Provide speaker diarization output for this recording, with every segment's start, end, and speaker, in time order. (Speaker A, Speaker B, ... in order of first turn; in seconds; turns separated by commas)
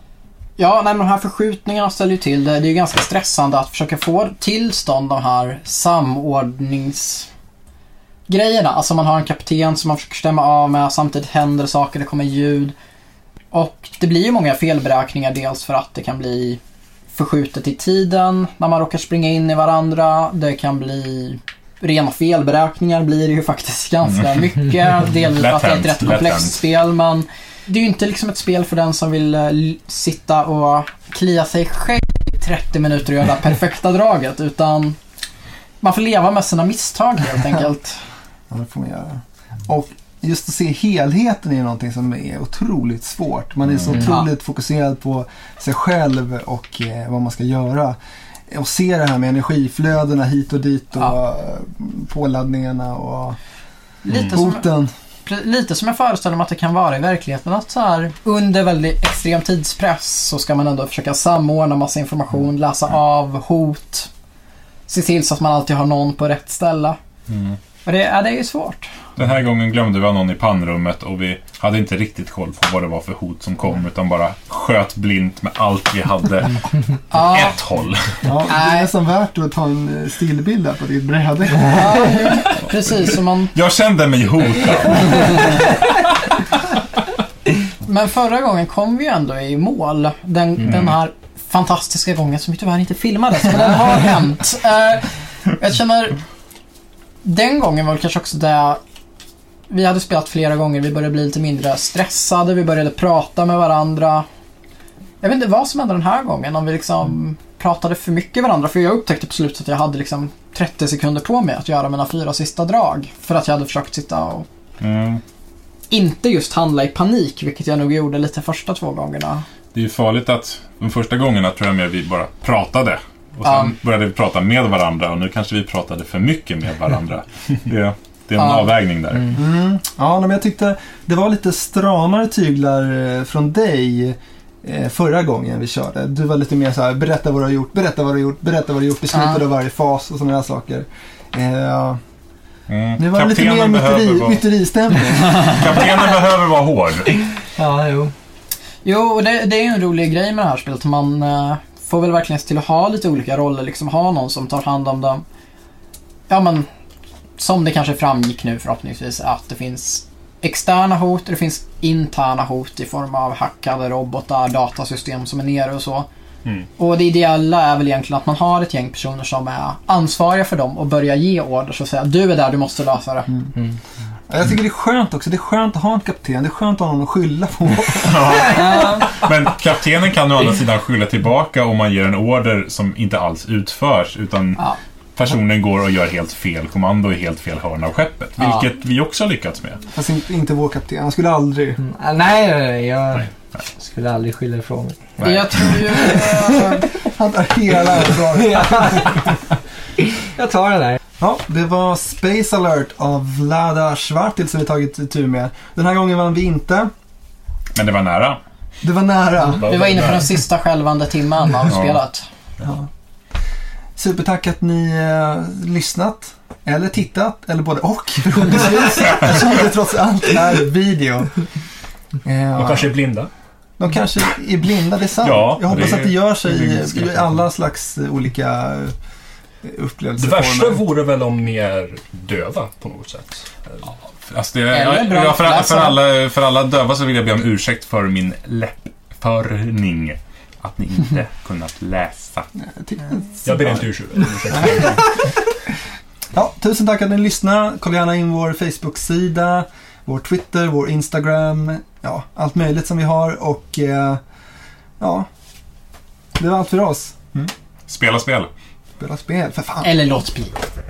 Speaker A: 0.6-7.3, Speaker A: 8.3-12.7, Speaker A: 13.5-16.6, Speaker A: 17.1-35.0, Speaker B: 25.3-26.6, Speaker A: 35.8-38.0, Speaker C: 38.5-48.0, Speaker A: 43.9-44.3, Speaker C: 48.5-53.4, Speaker A: 54.0-54.7, Speaker C: 54.3-54.9, Speaker A: 55.3-64.1, Speaker A: 64.9-67.0, Speaker B: 67.3-67.6, Speaker A: 67.9-68.9, Speaker B: 69.2-76.6, Speaker A: 77.1-77.6, Speaker B: 77.1-78.2, Speaker C: 78.2-82.2, Speaker A: 78.5-78.9, Speaker A: 81.7-83.5, Speaker B: 83.5-85.7, Speaker A: 87.8-96.2, Speaker A: 97.2-98.8, Speaker A: 99.7-104.3, Speaker A: 105.2-114.5, Speaker B: 114.8-115.2, Speaker A: 115.9-119.5, Speaker B: 119.7-129.4, Speaker A: 123.5-123.8, Speaker A: 128.4-128.7, Speaker C: 129.3-142.0, Speaker A: 139.1-139.4, Speaker B: 142.7-144.4, Speaker C: 143.0-145.8, Speaker B: 145.3-147.1, Speaker D: 147.6-148.1, Speaker A: 148.8-155.2, Speaker A: 156.3-156.7, Speaker A: 157.4-166.1, Speaker A: 166.8-173.3, Speaker C: 174.3-178.6, Speaker B: 177.9-189.8, Speaker A: 178.5-179.1, Speaker A: 188.4-188.6, Speaker C: 189.9-191.8, Speaker D: 191.8-195.2, Speaker B: 195.2-195.7, Speaker A: 195.2-196.9, Speaker D: 196.1-196.5, Speaker C: 197.1-199.2, Speaker D: 198.3-199.3, Speaker D: 200.0-201.0, Speaker C: 201.2-206.9, Speaker B: 207.7-208.4, Speaker C: 208.8-209.7, Speaker B: 209.5-210.3, Speaker A: 209.6-212.2, Speaker B: 211.7-212.0, Speaker C: 213.9-221.4, Speaker C: 222.3-222.9, Speaker E: 222.5-223.3, Speaker C: 223.8-228.9, Speaker B: 225.2-226.2, Speaker E: 226.8-227.3, Speaker C: 229.6-230.9, Speaker E: 230.2-233.8, Speaker B: 234.3-242.5, Speaker A: 234.7-236.0, Speaker C: 242.6-243.6, Speaker E: 243.4-245.1, Speaker C: 244.5-244.9, Speaker C: 246.3-254.2, Speaker C: 255.0-255.3, Speaker C: 256.4-257.5, Speaker B: 257.9-258.5, Speaker C: 259.0-259.9, Speaker A: 259.8-260.6